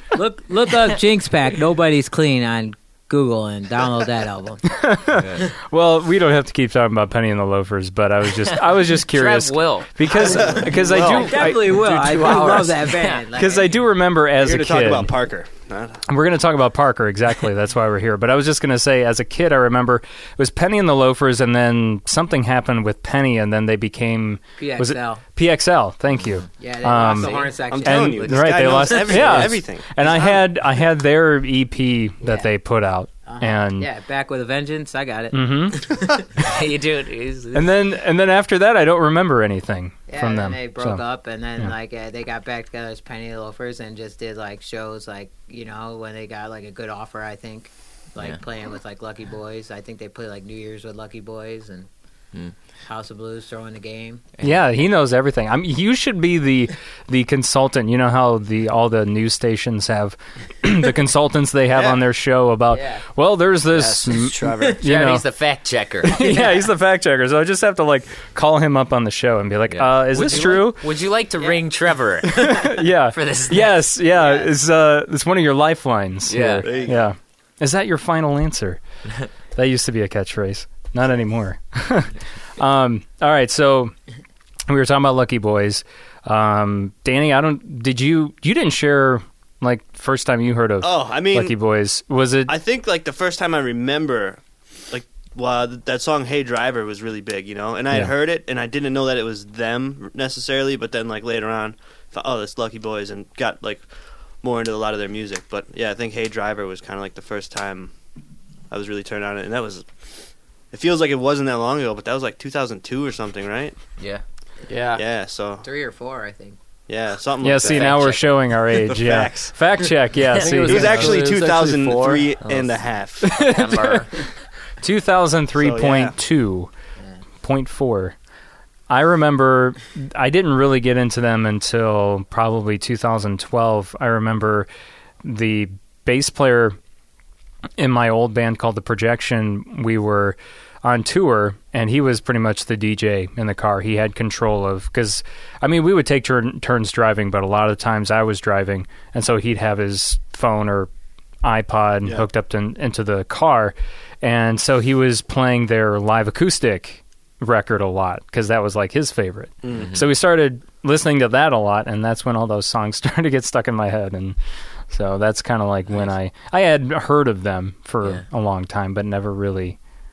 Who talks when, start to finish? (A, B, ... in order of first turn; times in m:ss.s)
0:00.2-0:04.6 A
0:04.7-0:12.4 B
0:05.2-0:05.4 C
0:09.1-0:09.9 C
0:10.1-0:13.7 A
0:10.1-0:11.5 D
0:12.1-0:12.7 E
0:12.8-0:13.2 C
0:13.3-0:15.1 B
0:14.4-0:16.0 D
0:16.1-0:33.9 B
0:24.6-0:25.2 A
0:26.1-0:26.5 C
0:26.6-0:29.4 A
0:27.2-0:27.5 C
0:27.7-0:30.4 D
0:32.2-0:32.5 A
0:33.3-0:36.2 A
0:35.3-0:35.8 B
0:36.4-0:37.7 C
0:37.5-0:41.0 B
0:40.1-0:51.9 A
0:52.8-0:54.2 A
0:54.4-1:05.2 B
1:01.7-1:02.0 D
1:02.7-1:03.0 A
1:03.7-1:04.8 E
1:04.8-1:06.2 C
1:06.1-1:10.8 B
1:06.2-1:06.5 A
1:09.7-1:13.9 C
1:12.6-1:18.8 B
1:14.2-1:14.4 A
1:16.3-1:16.7 C
1:16.6-1:17.0 D
1:19.6-1:23.9 B
1:24.7-1:32.6 B
1:30.8-1:31.5 D
1:32.5-1:47.9 D
1:48.7-1:49.9 D
1:50.7-1:53.8 D
1:54.7-1:55.0 E
1:55.0-1:55.6 D
1:55.6-1:56.6 A
1:56.9-1:58.1 D
1:57.4-2:01.2 B
1:57.6-1:58.3 C
1:58.8-1:59.5 D
2:00.4-2:02.3 E
2:00.6-2:03.3 D
2:02.4-2:04.3 C
2:03.2-2:04.1 B
2:04.8-2:06.7 B
2:05.6-2:06.2 D
2:07.4-2:08.2 B
2:08.9-2:14.7 B
2:15.2-2:16.8 B
2:17.8-2:30.9 B
2:31.4-2:44.4 B
2:39.6-2:39.9 D
2:39.7-2:40.1 C
2:44.9-2:49.8 B
2:45.9-2:46.1 C